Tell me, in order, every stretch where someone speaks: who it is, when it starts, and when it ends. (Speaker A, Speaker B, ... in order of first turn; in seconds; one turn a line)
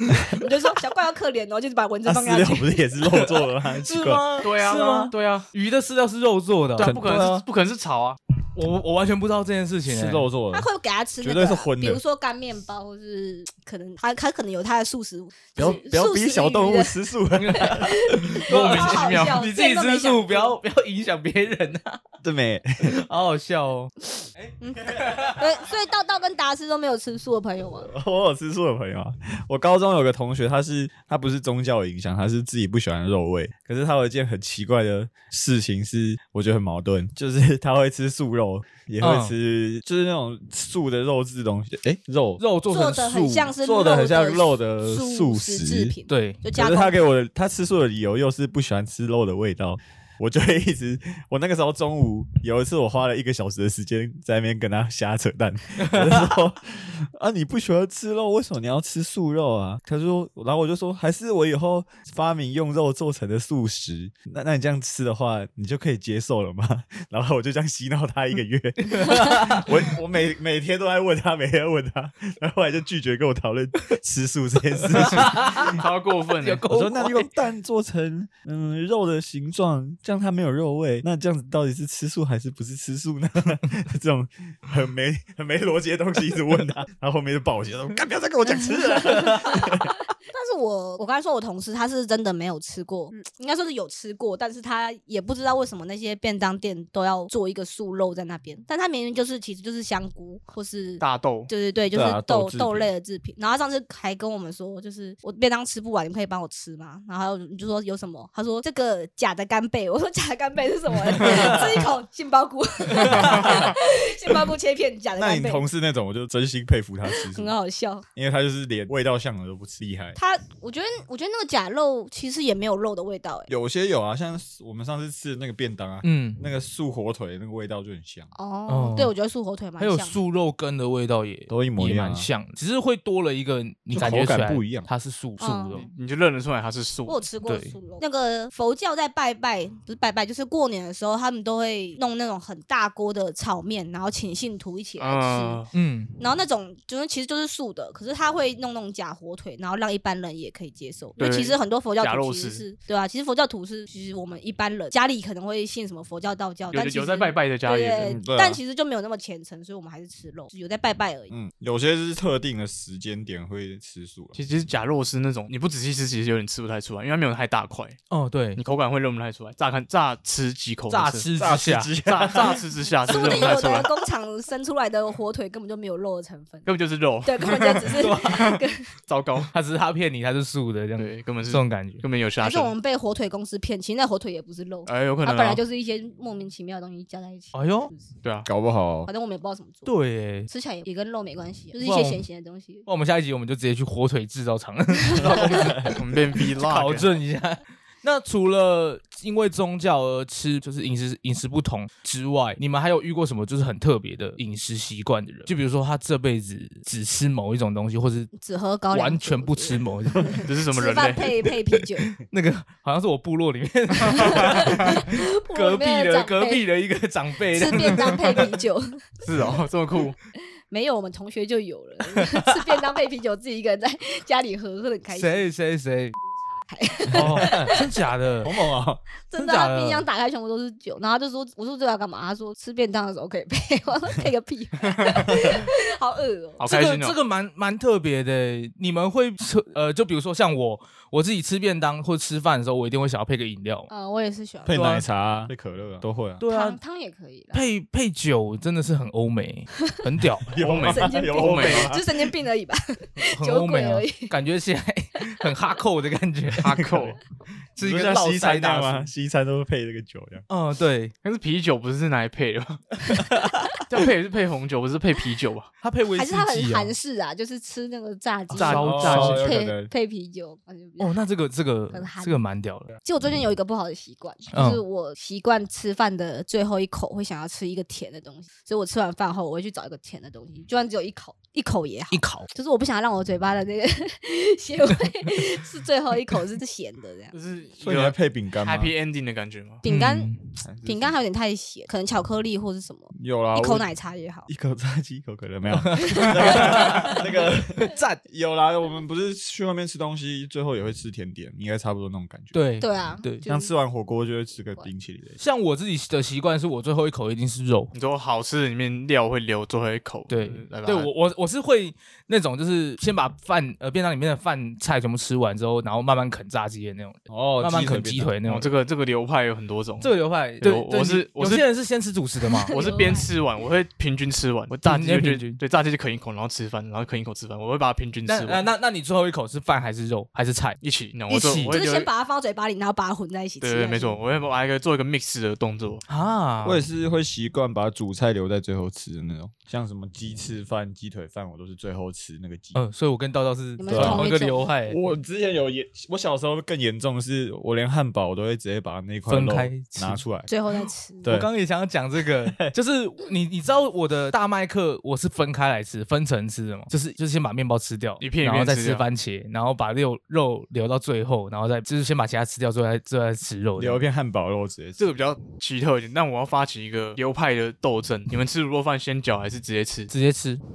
Speaker A: 0.3-2.8
Speaker B: 2.0-5.1
Speaker C: 3.2-6.9
Speaker D: 4.4-5.5
Speaker D: 6.8-8.2
Speaker B: 6.8-7.5
Speaker C: 8.5-10.2
Speaker B: 9.8-10.7
Speaker A: 10.5-16.9
Speaker B: 11.2-12.0
Speaker B: 15.6-18.4
Speaker C: 17.3-22.0
Speaker A: 17.6-20.6
Speaker D: 18.4-19.4
Speaker B: 22.2-23.0
Speaker C: 22.8-25.4
Speaker A: 24.6-27.9
Speaker B: 27.8-42.4
Speaker C: 39.0-39.3
Speaker C: 42.4-43.5
Speaker A: 42.7-46.9
Speaker B: 43.6-45.9
Speaker C: 46.1-46.4
Speaker B: 46.5-75.8
Speaker C: 55.8-56.2
Speaker C: 68.9-69.7
Speaker C: 74.9-75.8
Speaker D: 75.4-76.6
Speaker C: 76.4-77.3
Speaker B: 76.7-89.9
Speaker A: 88.5-115.7
Speaker D: 101.0-101.5
Speaker B: 101.9-102.9
Speaker B: 113.2-113.7
Speaker D: 113.2-113.6
Speaker B: 115.2-117.5
Speaker A: 117.2-118.0
Speaker B: 118.1-120.2
Speaker A: 120.1-123.5
Speaker B: 123.5-128.3
Speaker C: 126.0-126.4
Speaker A: 128.3-130.2
Speaker C: 128.7-129.1
Speaker C: 129.8-135.9
Speaker B: 131.5-132.3
Speaker B: 133.9-134.9
Speaker A: 135.4-135.9
Speaker D: 135.8-137.2
Speaker A: 137.1-145.7
Speaker C: 137.4-137.7
Speaker D: 145.0-145.7
Speaker C: 145.7-146.1
Speaker A: 146.2-161.3
Speaker D: 151.2-152.6
Speaker D: 156.7-158.2
Speaker B: 158.0-158.6
Speaker B: 161.3-164.3
Speaker D: 164.3-168.0
Speaker C: 168.1-168.6
Speaker D: 168.5-171.3
Speaker C: 170.9-171.9
Speaker B: 171.3-172.7
Speaker D: 172.0-174.0
Speaker A: 173.1-176.7
Speaker D: 176.7-179.5
Speaker A: 177.2-178.9
Speaker C: 177.9-178.6
Speaker C: 179.5-182.0
Speaker D: 180.9-182.7
Speaker A: 182.4-188.1
Speaker D: 184.8-185.6
Speaker C: 187.5-187.9
Speaker D: 188.2-188.5
Speaker B: 188.4-189.1
Speaker A: 189.1-189.9
Speaker C: 189.8-190.5
Speaker A: 190.5-192.9
Speaker C: 191.8-192.2
Speaker C: 192.8-208.3
Speaker A: 195.1-195.6
Speaker B: 195.2-196.0
Speaker D: 195.8-197.1
Speaker A: 208.3-212.1
Speaker C: 208.9-210.4
Speaker D: 210.4-211.3
Speaker C: 212.0-218.6
Speaker A: 214.1-216.7
Speaker A: 217.5-219.0
Speaker D: 219.2-220.2
Speaker A: 220.7-225.5
Speaker C: 225.1-226.1
Speaker A: 226.6-228.0
Speaker B: 227.1-227.8
Speaker C: 227.1-228.5
Speaker B: 228.4-229.0
Speaker A: 229.3-236.6
Speaker C: 229.3-230.1
Speaker D: 234.8-235.4
Speaker D: 236.6-237.2
Speaker C: 236.6-243.9
Speaker A: 243.9-244.8
Speaker B: 244.7-246.4
Speaker C: 244.7-245.0
Speaker C: 246.4-246.8
Speaker A: 246.4-247.7
Speaker C: 247.5-250.6
Speaker B: 250.4-252.3
Speaker D: 250.6-251.9
Speaker A: 250.9-254.3
Speaker C: 253.2-256.8
Speaker A: 255.2-255.4
Speaker D: 256.6-257.2
Speaker B: 256.6-257.2
Speaker C: 257.8-259.1
Speaker B: 257.8-260.4
Speaker C: 260.5-261.1
Speaker D: 261.2-263.0
Speaker C: 263.1-263.8
Speaker D: 263.8-265.7
Speaker C: 265.8-266.9
Speaker A: 266.1-271.2
Speaker D: 268.5-269.4
Speaker C: 268.6-269.5
Speaker B: 268.8-269.9
Speaker C: 271.0-272.9
Speaker A: 271.9-272.4
Speaker A: 273.0-287.3
Speaker C: 274.5-274.8
Speaker C: 282.1-282.5
Speaker D: 287.3-289.8
Speaker B: 287.8-288.9
Speaker A: 289.8-294.5
Speaker C: 289.8-290.4
Speaker B: 290.6-291.2
Speaker B: 293.1-293.9
Speaker B: 294.5-302.6
Speaker C: 295.9-297.2
Speaker A: 296.0-297.2
Speaker C: 297.8-298.2
Speaker C: 302.5-303.4
Speaker A: 302.8-303.7
Speaker B: 303.4-305.4
Speaker C: 305.4-307.9
Speaker D: 307.9-311.1
Speaker C: 310.3-318.7
Speaker B: 317.3-318.3
Speaker D: 318.4-321.7
Speaker C: 320.0-322.7
Speaker A: 322.6-323.3
Speaker D: 322.7-328.6
Speaker C: 324.9-325.6
Speaker C: 328.3-331.7
Speaker D: 330.8-332.1
Speaker A: 331.7-334.2
Speaker D: 333.6-336.0
Speaker C: 336.1-336.8
Speaker B: 336.6-342.8
Speaker C: 342.7-345.0
Speaker A: 343.8-344.7
Speaker B: 343.9-344.3
Speaker B: 344.9-350.5
Speaker C: 349.3-350.2
Speaker A: 350.5-351.2
Speaker B: 351.2-351.5
Speaker C: 351.2-364.0
Speaker B: 352.2-352.7
Speaker D: 358.2-359.0
Speaker B: 363.8-365.0
Speaker D: 365.0-370.1
Speaker C: 370.1-370.6